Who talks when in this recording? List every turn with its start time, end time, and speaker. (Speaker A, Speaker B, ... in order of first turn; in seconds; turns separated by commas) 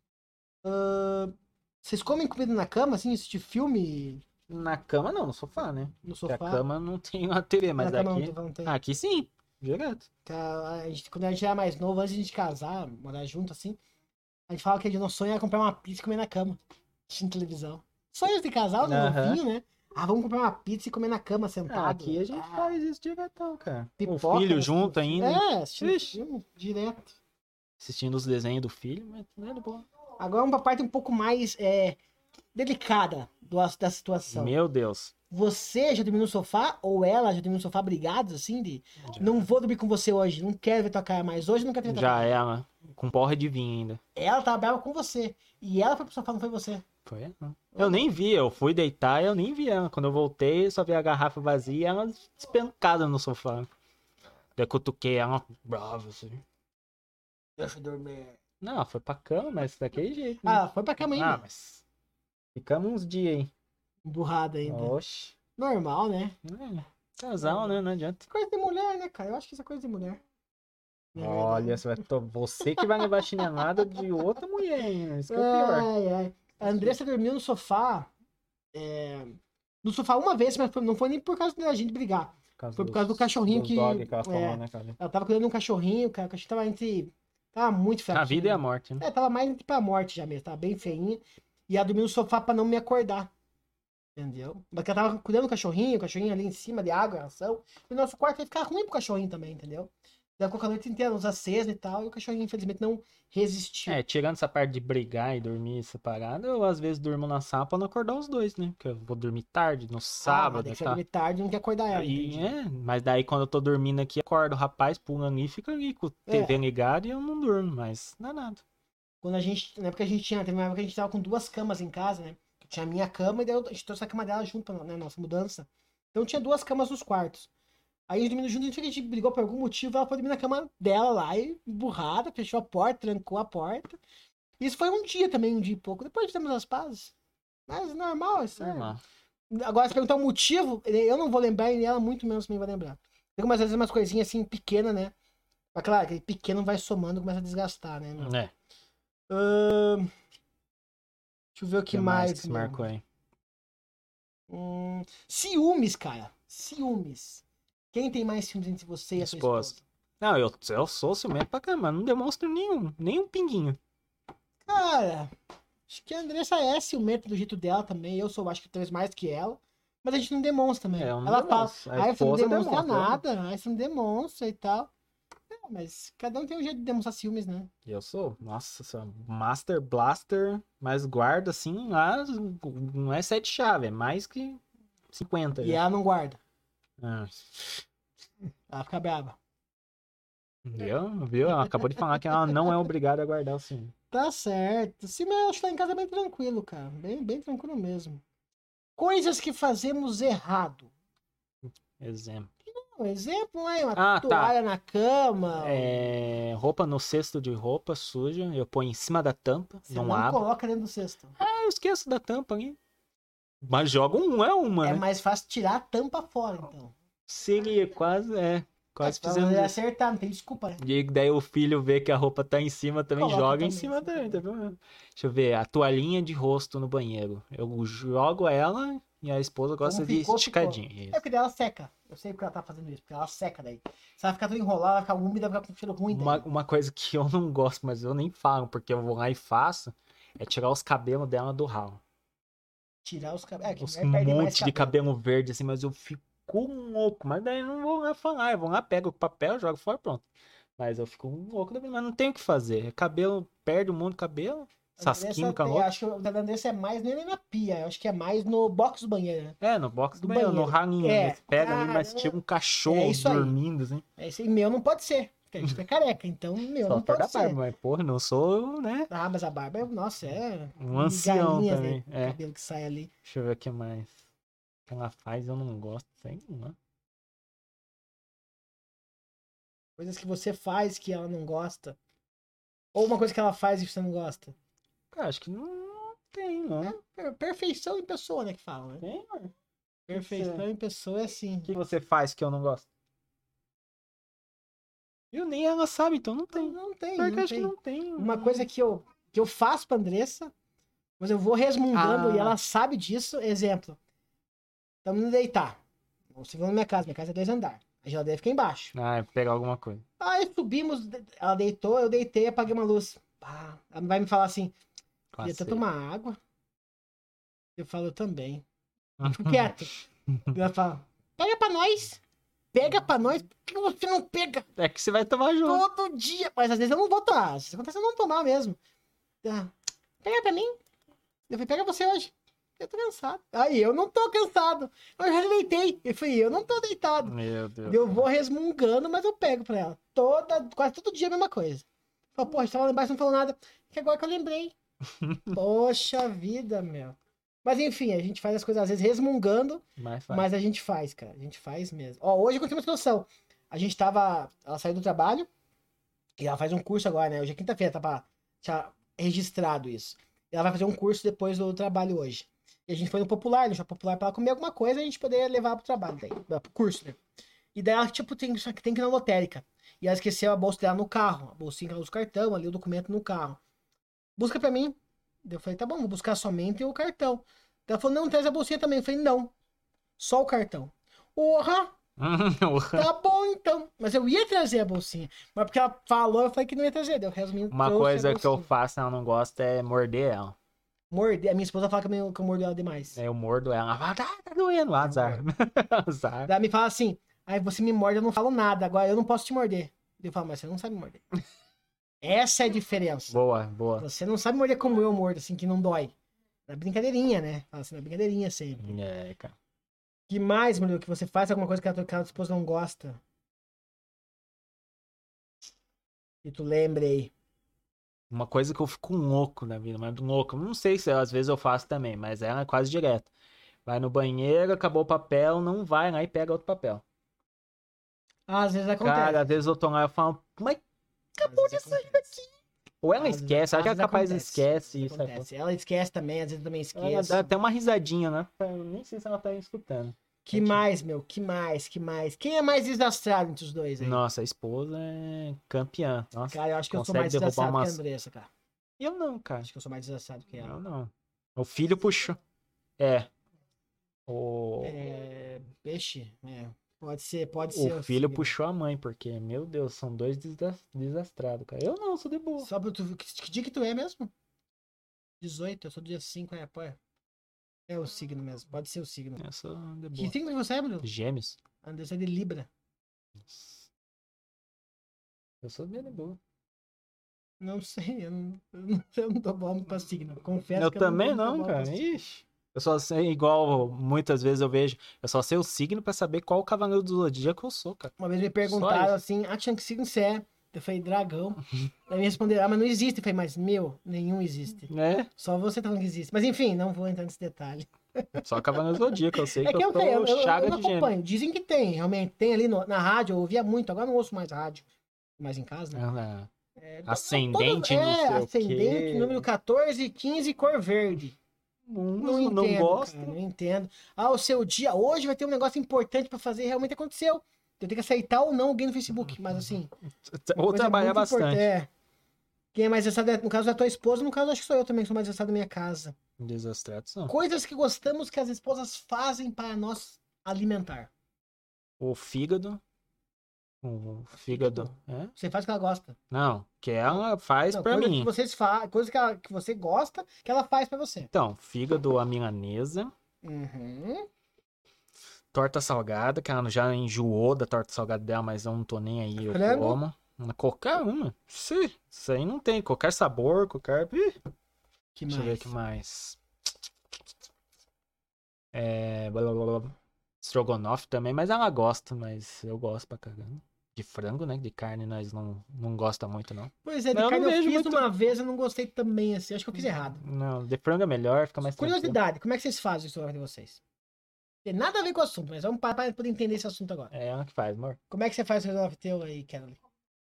Speaker A: 0.6-4.2, Speaker B: 4.5-10.1, Speaker A: 6.0-6.7, Speaker A: 7.8-8.8, Speaker A: 10.3-13.8, Speaker A: 14.5-22.8, Speaker B: 18.8-19.4, Speaker B: 21.7-26.2, Speaker A: 24.0-27.2, Speaker B: 27.8-29.9, Speaker A: 30.2-32.0, Speaker A: 32.5-34.5, Speaker B: 34.3-35.1, Speaker A: 35.3-42.4, Speaker B: 39.1-39.4, Speaker B: 41.9-44.0, Speaker A: 44.1-46.8, Speaker B: 47.1-53.7, Speaker A: 47.8-48.1, Speaker B: 54.6-56.4, Speaker A: 57.6-58.4, Speaker B: 58.6-61.8, Speaker A: 60.4-61.5, Speaker B: 62.5-63.5, Speaker A: 64.0-65.0, Speaker B: 64.7-65.4, Speaker A: 65.6-66.4, Speaker B: 66.4-68.3, Speaker A: 67.4-70.2, Speaker A: 71.1-72.0, Speaker B: 71.2-75.9, Speaker A: 72.7-73.6, Speaker A: 75.3-78.1, Speaker B: 76.6-77.0, Speaker A: 78.7-93.3, Speaker B: 82.6-85.0, Speaker B: 88.1-89.0, Speaker A: 94.2-104.0, Speaker B: 103.9-111.0, Speaker A: 110.2-112.5, Speaker B: 111.9-118.6, Speaker A: 116.3-116.6, Speaker A: 119.2-127.5, Speaker A: 128.1-134.0, Speaker A: 134.6-137.1, Speaker A: 137.7-138.9, Speaker B: 138.6-139.0, Speaker A: 139.5-145.1, Speaker A: 145.7-148.3, Speaker B: 148.2-148.5, Speaker A: 149.3-150.1, Speaker A: 151.6-152.9, Speaker B: 151.9-153.0, Speaker A: 154.5-159.8, Speaker B: 159.2-163.8, Speaker A: 164.7-165.3, Speaker A: 165.9-174.9, Speaker B: 171.0-173.2, Speaker A: 175.5-177.7, Speaker B: 177.9-185.8, Speaker A: 185.6-186.4, Speaker B: 187.0-187.8, Speaker A: 188.7-189.4, Speaker B: 190.7-193.9, Speaker A: 194.1-198.2, Speaker A: 199.0-200.9, Speaker B: 202.0-202.5, Speaker A: 202.7-206.1, Speaker B: 204.0-204.6, Speaker B: 205.6-210.4, Speaker A: 209.9-211.4, Speaker B: 211.4-212.8, Speaker B: 213.6-215.0, Speaker A: 214.8-216.9, Speaker B: 217.3-219.8, Speaker A: 219.0-220.8, Speaker B: 220.8-231.2, Speaker A: 223.2-224.4, Speaker A: 229.8-236.4, Speaker B: 236.1-242.0, Speaker A: 243.0-244.9, Speaker B: 243.8-250.2, Speaker B: 250.8-255.9, Speaker A: 255.0-259.6, Speaker B: 259.6-264.0, Speaker A: 260.2-263.6, Speaker A: 264.2-267.6, Speaker B: 266.8-269.1, Speaker A: 269.1-273.1, Speaker B: 270.8-272.4, Speaker B: 273.2-274.2, Speaker B: 274.9-276.8, Speaker A: 280.0-282.0, Speaker A: 282.9-284.6, Speaker B: 285.1-287.0, Speaker A: 286.8-289.1, Speaker B: 289.0-289.5, Speaker A: 290.1-291.7, Speaker B: 290.1-290.6, Speaker B: 291.7-292.9, Speaker B: 295.3-298.7, Speaker A: 296.5-300.5, Speaker A: 301.2-304.0, Speaker B: 301.9-302.6, Speaker A: 305.1-305.8, Speaker A: 306.4-308.9, Speaker B: 308.9-310.1, Speaker A: 310.2-314.8, Speaker B: 315.3-315.8, Speaker A: 315.4-316.4, Speaker A: 317.8-318.6, Speaker B: 319.2-319.7, Speaker A: 319.2-319.9, Speaker A: 320.5-322.2, Speaker A: 322.7-324.7, Speaker B: 324.8-325.8, Speaker A: 325.6-328.8, Speaker A: 329.4-330.8, Speaker A: 331.5-344.8, Speaker B: 337.2-338.2, Speaker B: 345.2-345.5, Speaker A: 345.5-355.5, Speaker B: 350.0-350.5, Speaker A: 356.4-367.2, Speaker A: 367.8-373.6, Speaker A: 374.4-379.5, Speaker A: 380.2-381.9, Speaker B: 382.2-383.1, Speaker A: 382.9-388.7, Speaker B: 387.7-390.6, Speaker A: 391.1-393.2, Speaker B: 393.2-396.5, Speaker A: 395.0-395.4, Speaker A: 396.5-401.2, Speaker A: 402.2-403.4, Speaker B: 403.3-404.1, Speaker A: 404.0-406.1, Speaker A: 406.7-409.0, Speaker B: 408.8-409.6, Speaker A: 410.3-413.2, Speaker A: 416.4-417.3, Speaker B: 418.3-423.3, Speaker B: 423.9-427.0, Speaker A: 428.5-429.5, Speaker B: 429.0-430.8, Speaker B: 431.4-432.4, Speaker A: 431.4-432.4, Speaker B: 433.0-435.5, Speaker A: 433.2-437.5, Speaker B: 436.9-440.8, Speaker A: 440.4-444.2, Speaker B: 444.0-448.0, Speaker A: 446.5-448.5, Speaker B: 449.0-449.7, Speaker A: 449.6-450.8, Speaker B: 450.6-452.4, Speaker B: 453.0-453.3, Speaker B: 454.3-455.0, Speaker A: 454.8-458.6, Speaker B: 457.7-462.7, Speaker A: 462.6-464.3, Speaker A: 465.4-467.0, Speaker A: 467.9-469.4, Speaker B: 469.4-470.3, Speaker A: 470.1-471.1, Speaker B: 471.0-471.6, Speaker A: 471.8-472.7, Speaker B: 473.5-473.9, Speaker B: 475.6-476.4, Speaker A: 477.6-482.2, Speaker B: 480.8-489.2, Speaker A: 488.2-504.9, Speaker B: 494.9-495.3, Speaker B: 498.4-501.1, Speaker A: 505.4-506.0, Speaker B: 505.9-506.5, Speaker A: 506.8-511.4, Speaker B: 507.1-509.5, Speaker B: 511.9-513.4, Speaker A: 512.2-519.9, Speaker B: 520.2-521.7, Speaker A: 520.5-521.9, Speaker A: 522.7-526.2, Speaker B: 526.4-527.3, Speaker A: 527.3-531.1, Speaker B: 532.0-532.8, Speaker B: 533.8-535.3, Speaker A: 534.4-536.2, Speaker B: 536.3-538.3, Speaker A: 537.7-541.3, Speaker B: 541.3-543.1, Speaker A: 543.4-544.3, Speaker B: 545.5-554.4, Speaker A: 549.4-550.0, Speaker A: 555.1-555.7, Speaker B: 555.3-556.4, Speaker B: 558.7-568.1, Speaker A: 566.8-570.2, Speaker B: 570.2-572.2, Speaker A: 571.8-573.8, Speaker A: 574.6-577.1, Speaker B: 577.1-578.0, Speaker A: 578.1-579.8